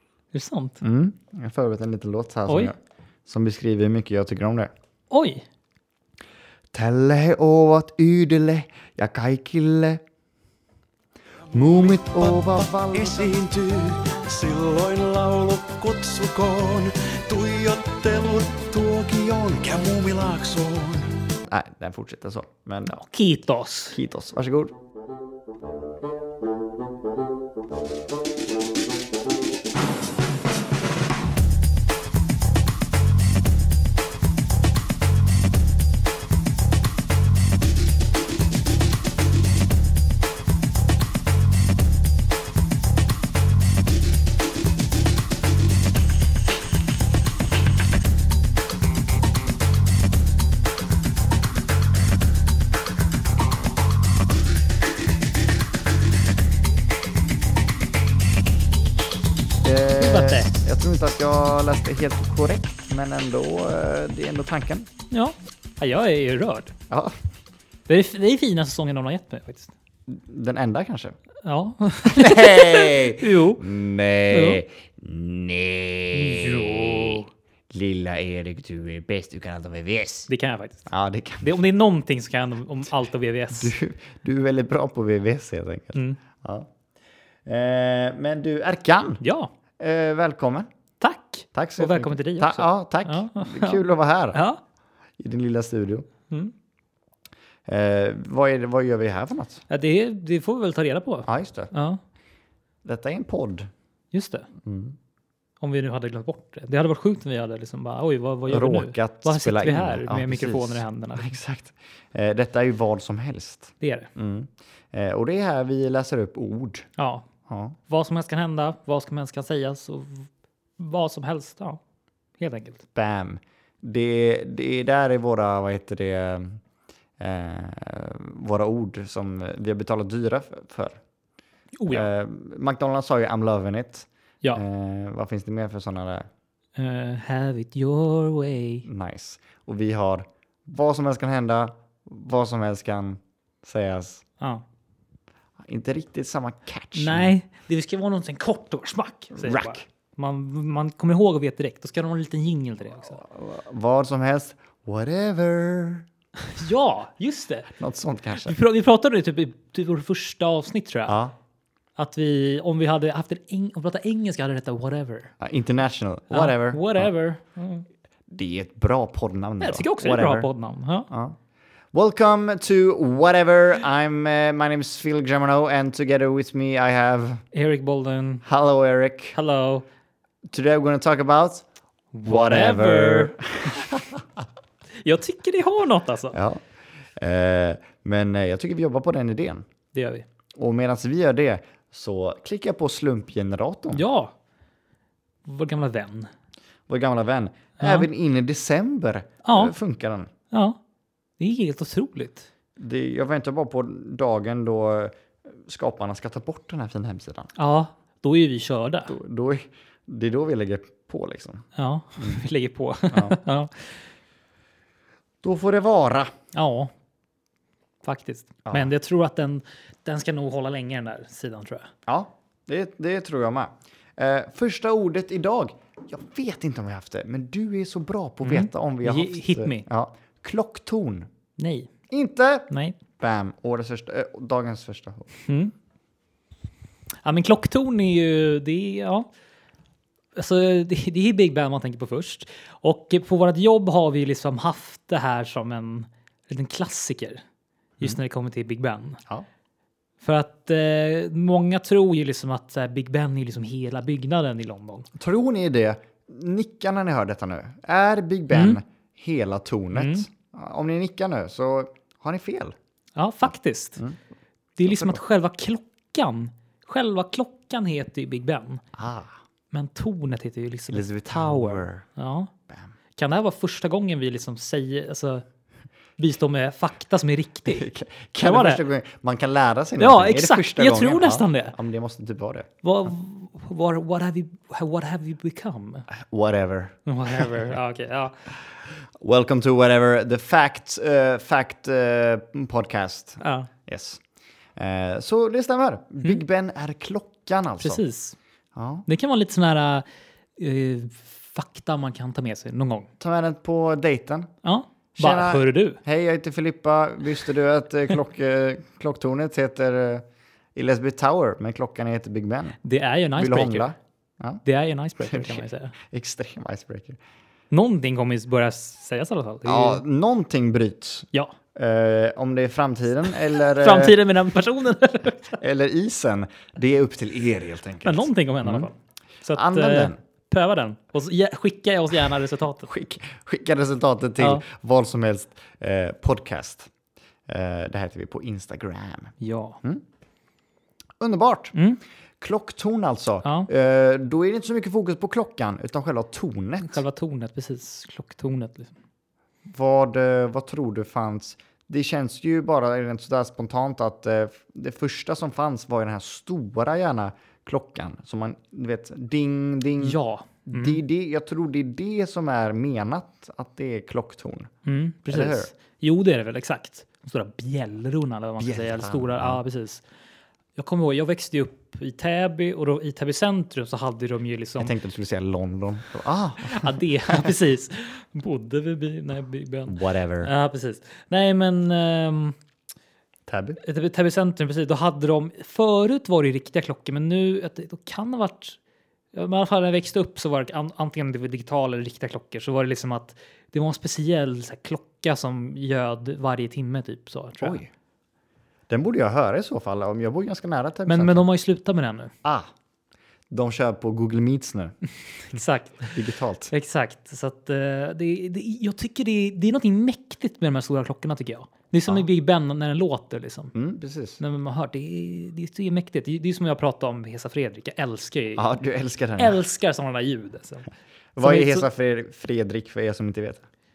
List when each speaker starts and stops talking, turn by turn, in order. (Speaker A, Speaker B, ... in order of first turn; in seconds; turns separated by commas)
Speaker A: 0.3-0.8, Speaker B: 0.8-4.7, Speaker A: 2.5-2.7, Speaker A: 5.1-5.5, Speaker B: 6.7-10.0, Speaker B: 11.5-13.3, Speaker C: 11.5-21.2, Speaker B: 21.5-23.0, Speaker A: 22.9-24.0, Speaker B: 23.9-24.7, Speaker B: 59.6-64.9, Speaker A: 60.0-60.5, Speaker A: 65.1-66.7, Speaker B: 66.9-67.2, Speaker A: 67.9-69.7, Speaker B: 70.1-71.2, Speaker A: 71.4-73.7, Speaker B: 72.0-80.3, Speaker A: 74.3-74.6, Speaker A: 76.1-77.3, Speaker A: 80.3-80.9, Speaker B: 80.9-81.5, Speaker A: 81.4-83.7, Speaker B: 83.5-86.7, Speaker B: 87.5-89.2, Speaker A: 89.2-89.5, Speaker B: 89.8-90.7, Speaker A: 91.0-93.8, Speaker B: 91.5-94.4, Speaker A: 94.3-94.6, Speaker B: 95.2-96.1, Speaker B: 97.7-99.6, Speaker A: 99.7-102.0, Speaker B: 101.3-101.7, Speaker B: 102.8-103.7, Speaker A: 104.1-104.5, Speaker B: 104.6-105.0, Speaker A: 105.6-111.4, Speaker B: 108.5-116.9, Speaker A: 113.8-114.1, Speaker A: 117.0-117.3, Speaker B: 117.5-117.8, Speaker A: 117.9-121.8, Speaker A: 122.4-122.8, Speaker B: 123.0-126.6, Speaker B: 127.2-131.0, Speaker A: 131.8-132.1, Speaker B: 131.9-136.3, Speaker A: 136.8-138.8, Speaker B: 138.8-144.2, Speaker B: 145.6-147.3, Speaker A: 146.9-153.2, Speaker B: 149.3-149.8, Speaker B: 153.1-156.1, Speaker A: 156.5-157.7, Speaker B: 157.8-158.6, Speaker A: 158.4-161.2, Speaker B: 161.1-161.3, Speaker A: 162.0-165.3, Speaker B: 165.4-167.1, Speaker A: 166.3-167.8, Speaker B: 168.3-170.5, Speaker A: 169.6-171.1, Speaker B: 171.1-171.3, Speaker B: 171.9-177.4, Speaker A: 177.5-178.4, Speaker B: 178.4-179.4, Speaker A: 179.3-179.8, Speaker B: 180.5-181.6, Speaker A: 182.1-183.9, Speaker B: 182.2-184.2, Speaker A: 184.9-186.3, Speaker B: 186.3-186.6, Speaker B: 187.2-189.7, Speaker A: 189.9-190.2, Speaker B: 190.6-194.0, Speaker A: 193.9-194.3, Speaker A: 195.4-196.3, Speaker B: 196.9-200.3, Speaker A: 197.8-198.1, Speaker A: 199.4-199.7, Speaker A: 200.5-200.8, Speaker A: 201.4-202.5, Speaker B: 202.8-207.5, Speaker A: 207.6-209.1, Speaker B: 209.1-211.7, Speaker A: 211.7-214.0, Speaker B: 212.2-212.4, Speaker B: 213.1-213.3, Speaker B: 215.4-216.3, Speaker A: 216.5-216.9, Speaker A: 218.0-221.9, Speaker B: 218.6-218.9, Speaker B: 222.1-231.3, Speaker A: 228.4-229.8, Speaker A: 231.6-231.9, Speaker B: 232.1-235.3, Speaker A: 232.7-233.0, Speaker A: 235.5-235.7, Speaker A: 237.2-239.3, Speaker A: 240.3-247.4, Speaker A: 248.0-249.2, Speaker A: 250.2-255.1, Speaker B: 255.2-262.8, Speaker A: 258.5-258.8, Speaker A: 259.9-260.3, Speaker A: 263.2-264.0, Speaker A: 264.8-268.8, Speaker B: 264.8-265.2, Speaker B: 268.9-269.3, Speaker A: 269.7-272.5, Speaker B: 270.9-272.1, Speaker A: 273.1-275.4, Speaker A: 276.2-277.9, Speaker B: 277.7-282.7, Speaker A: 278.4-278.8, Speaker A: 280.0-281.8, Speaker A: 282.8-286.1, Speaker B: 286.1-287.5, Speaker A: 287.1-288.4, Speaker B: 289.2-294.2, Speaker A: 293.4-293.7, Speaker B: 294.8-298.0, Speaker A: 297.8-298.4, Speaker B: 298.8-299.1, Speaker A: 299.1-300.1, Speaker A: 300.6-303.1, Speaker B: 303.2-304.5, Speaker A: 304.6-306.0, Speaker B: 305.2-310.2, Speaker B: 310.8-312.8, Speaker A: 312.8-313.9, Speaker B: 313.4-314.6, Speaker A: 314.6-315.9, Speaker B: 315.2-317.2, Speaker A: 317.7-320.0, Speaker B: 319.6-324.2, Speaker A: 323.3-325.6, Speaker B: 325.6-328.9, Speaker A: 328.0-332.9, Speaker B: 329.5-330.2, Speaker B: 332.9-336.9, Speaker A: 334.4-334.6, Speaker B: 337.5-340.0, Speaker A: 339.4-339.8, Speaker B: 341.2-341.8, Speaker A: 341.8-342.0, Speaker B: 342.4-347.0, Speaker A: 343.4-343.7, Speaker A: 346.8-348.9, Speaker B: 349.7-364.7, Speaker A: 360.0-361.0, Speaker A: 364.9-370.0, Speaker B: 365.3-365.7, Speaker B: 368.6-369.6, Speaker A: 370.8-374.9, Speaker B: 374.8-377.5, Speaker A: 376.6-382.6, Speaker B: 379.9-380.5, Speaker B: 383.5-383.8, Speaker A: 383.8-388.8, Speaker A: 389.3-397.8, Speaker B: 397.6-397.9, Speaker B: 398.9-401.5, Speaker A: 401.1-402.3, Speaker B: 402.4-402.7, Speaker B: 403.5-404.9, Speaker A: 405.5-406.1, Speaker B: 406.0-406.7, Speaker A: 406.7-413.7, Speaker B: 413.7-414.4, Speaker A: 414.4-418.7, Speaker B: 418.6-419.6, Speaker A: 419.4-420.9, Speaker B: 421.4-423.6, Speaker A: 421.4-421.9